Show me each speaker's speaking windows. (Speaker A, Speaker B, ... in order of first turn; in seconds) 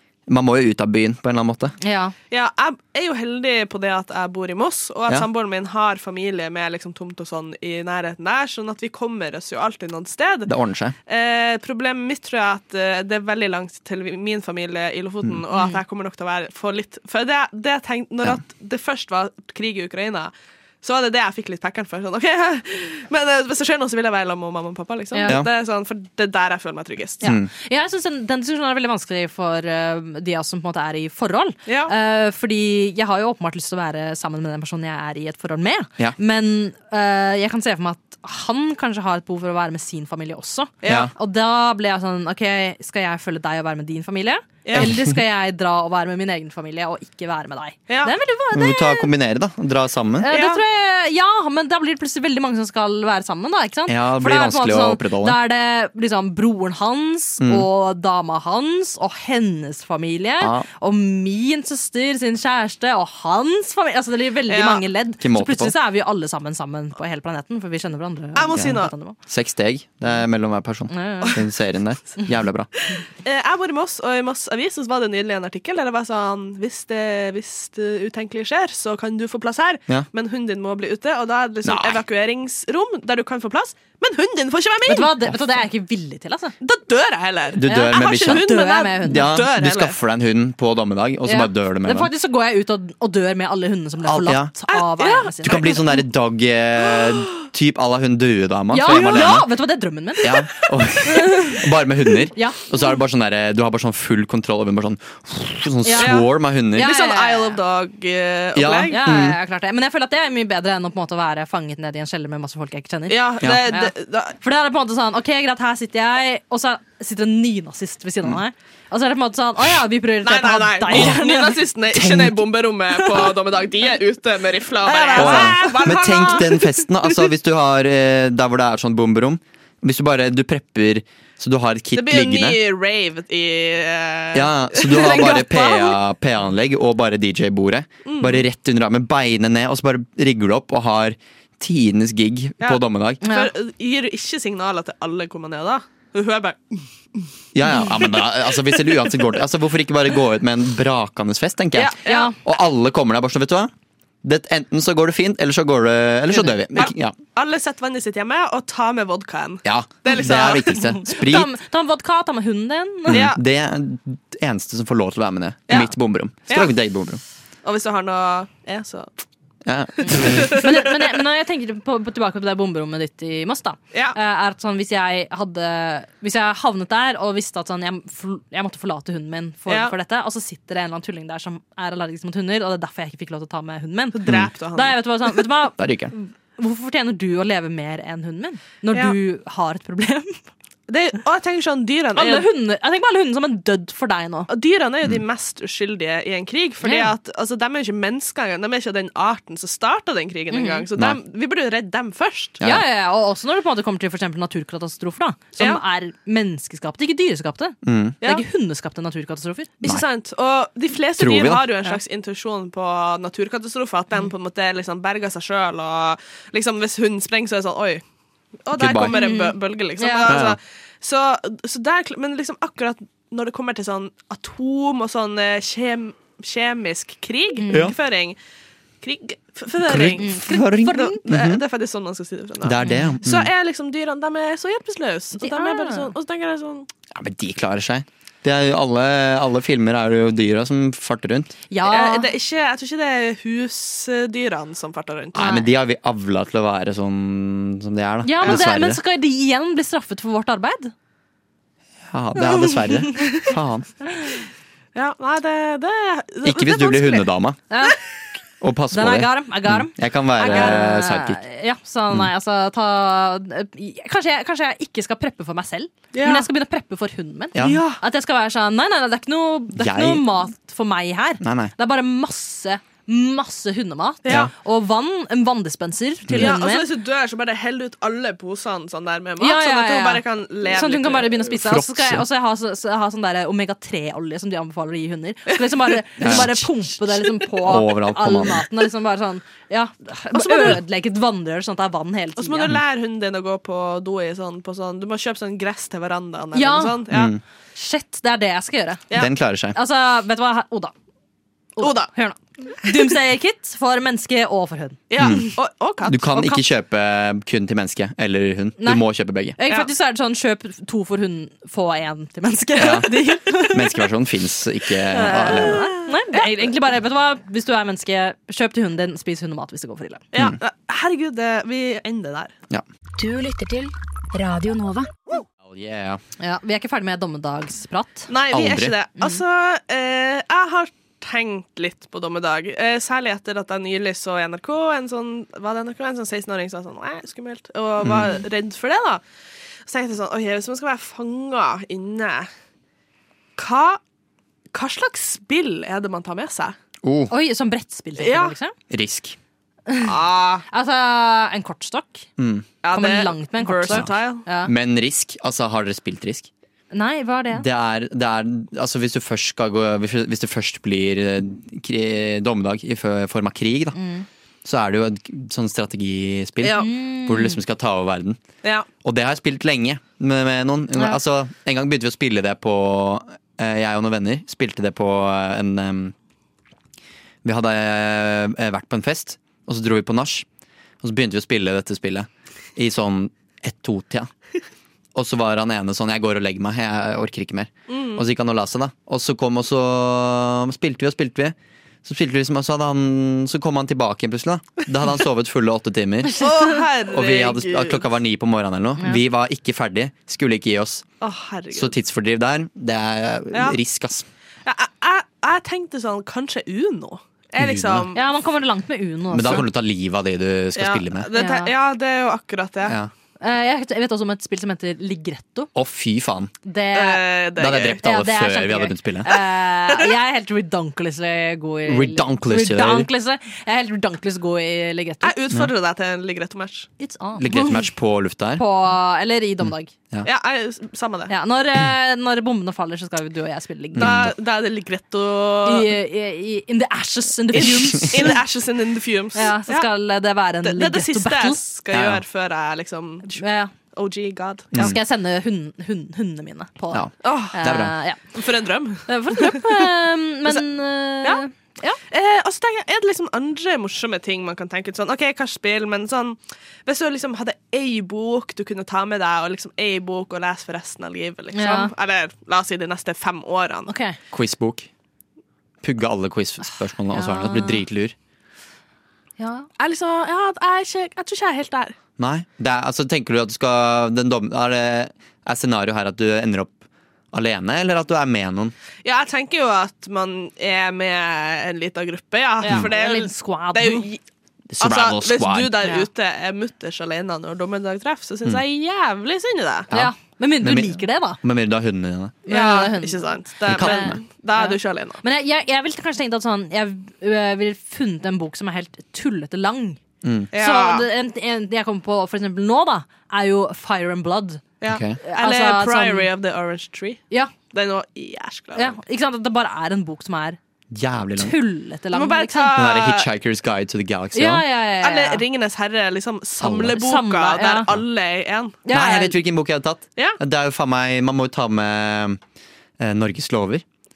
Speaker A: 0.3-1.8, 10.5-10.9, 27.2-27.5, 40.8-41.1, 44.8-45.2, 48.5-50.3, 53.9-55.4, 57.4-57.7, 60.4-60.7, 65.2-65.8, 68.5-72.7, 81.6-82.0, 87.5-88.5, 89.0-92.1, 94.0-94.5, 95.4-99.5, 100.2-106.9, 108.5-109.4, 113.4-113.7, 120.9-121.2, 121.9-122.4, 125.2-132.6, 134.3-143.2, 147.5-153.7, 154.2-157.2, 159.7-161.5, 163.1-167.2, 169.7-170.5, 185.8-186.1, 207.8-208.2, 211.2-211.7, 218.8-219.2, 220.3-220.6, 227.7-228.0, 229.8-231.6, 232.6-233.5, 237.1-241.6, 245.3-249.0, 252.1-253.9, 256.4-257.6, 258.6-261.4, 267.6-267.8, 269.7-270.3, 271.4-271.7, 274.3-274.5, 276.3-276.6, 281.5-282.2, 286.2-286.7, 287.5-288.6, 297.1-297.4, 299.1-299.8, 305.2-305.5, 306.0-309.6, 312.8-315.9, 325.6-326.2, 328.5-328.9, 338.0-338.3, 347.0-347.3, 348.9-349.4, 352.4-352.7, 354.6-356.5, 357.5-364.0, 364.6-368.4, 369.0-376.1, 377.4-380.5, 381.0-384.3, 385.1-396.5, 397.1-401.1, 401.7-404.3, 407.6-408.1, 409.3-411.3, 412.9-413.1, 415.8-416.5, 417.6-419.3, 421.9-423.1, 427.4-428.6, 429.6-430.3, 433.9-434.3, 437.6-438.1, 441.9-442.2, 446.9-447.9, 464.3-464.9, 465.8-468.1, 472.2-478.7, 484.7-485.8, 489.9-492.4, 493.7-494.2, 500.2-500.5, 504.9-505.2, 510.9-511.6, 512.8-514.6, 516.6-517.0, 518.9-522.4, 523.0-523.9
Speaker B: 1.8-2.1, 15.5-15.8, 25.1-25.4, 27.2-49.1, 50.2-69.2, 70.9-71.4, 84.9-86.5, 87.7-89.3, 91.3-95.8, 98.7-100.4, 101.0-101.6, 102.3-102.6, 105.8-106.2, 106.7-107.6, 108.9-121.6, 124.8-126.4, 143.2-143.5, 152.1-152.3, 160.7-163.2, 170.1-184.2, 184.8-190.4, 192.2-194.5, 196.8-197.1, 200.5-200.8, 202.6-209.8, 219.1-220.3, 227.6-227.9, 230.2-231.2, 232.8-233.1, 235.4-236.1, 241.7-242.3, 245.4-245.7, 248.2-250.9, 257.7-258.0, 258.9-276.9, 279.4-292.7, 296.6-297.0, 297.8-299.1, 299.7-300.9, 301.8-305.1, 308.8-309.0, 309.6-314.1, 315.2-320.2, 326.4-328.3, 347.3-348.8, 350.7-352.3, 352.9-354.7, 356.9-357.7, 363.9-364.3, 366.8-367.6, 408.1-409.7, 411.4-411.7, 413.4-415.7, 416.6-417.3, 418.0-425.4, 427.0-427.9, 428.6-429.9, 431.3-434.3, 435.6-438.4, 439.4-441.6, 443.3-443.7, 444.8-448.2, 449.1-452.0, 461.6-461.9, 463.9-464.2, 467.1-467.8, 469.4-469.7, 482.6-484.1, 489.9-491.4, 492.5-500.0, 500.5-504.7, 505.2-506.3, 508.8-510.6, 511.4-512.8, 514.3-515.4, 517.0-517.9, 518.9-519.4
Speaker C: 2.3-10.5, 11.1-27.3, 31.7-31.9, 40.8-41.1, 44.6-44.9, 47.9-48.1, 50.3-50.6, 64.5-64.8, 68.3-68.9, 73.2-85.2, 86.6-90.0, 94.7-95.9, 98.9-99.4, 106.0-109.0, 113.1-114.4, 120.2-127.2, 131.9-136.0, 138.1-138.5, 142.6-146.9, 147.8-148.2, 151.8-152.3, 156.8-160.8, 163.1-163.4, 165.7-165.9, 166.5-166.7, 167.6-169.1, 170.1-171.0, 179.7-179.9, 184.1-185.4, 190.9-192.5, 194.5-202.6, 208.2-208.5, 209.8-218.0, 218.7-228.4, 229.0-236.9, 241.8-245.4, 254.9-257.3, 260.4-260.8, 266.1-266.5, 267.6-268.0, 274.2-274.5, 276.3-281.4, 285.6-286.5, 290.4-290.8, 292.4-297.3, 301.8-302.1, 305.1-306.6, 315.1-316.6, 320.3-322.5, 328.3-339.2, 339.9-342.5, 343.6-344.0, 344.7-346.8, 348.2-348.6, 350.0-350.6, 352.8-354.4, 366.6-366.9, 387.9-388.2, 396.4-398.1, 401.2-402.0, 403.5-403.8, 404.7-408.2, 410.8-413.0, 416.9-418.0, 425.2-426.9, 430.2-431.3, 434.0-435.9, 437.5-439.9, 440.6-443.4, 443.9-444.9, 447.2-447.6, 448.3-449.9, 452.1-463.9, 469.8-471.9, 479.0-484.2, 484.8-489.9, 492.5-495.2, 500.5-501.1, 504.8-509.0, 512.1-513.3, 515.0-518.8
Speaker D: 323.2-325.1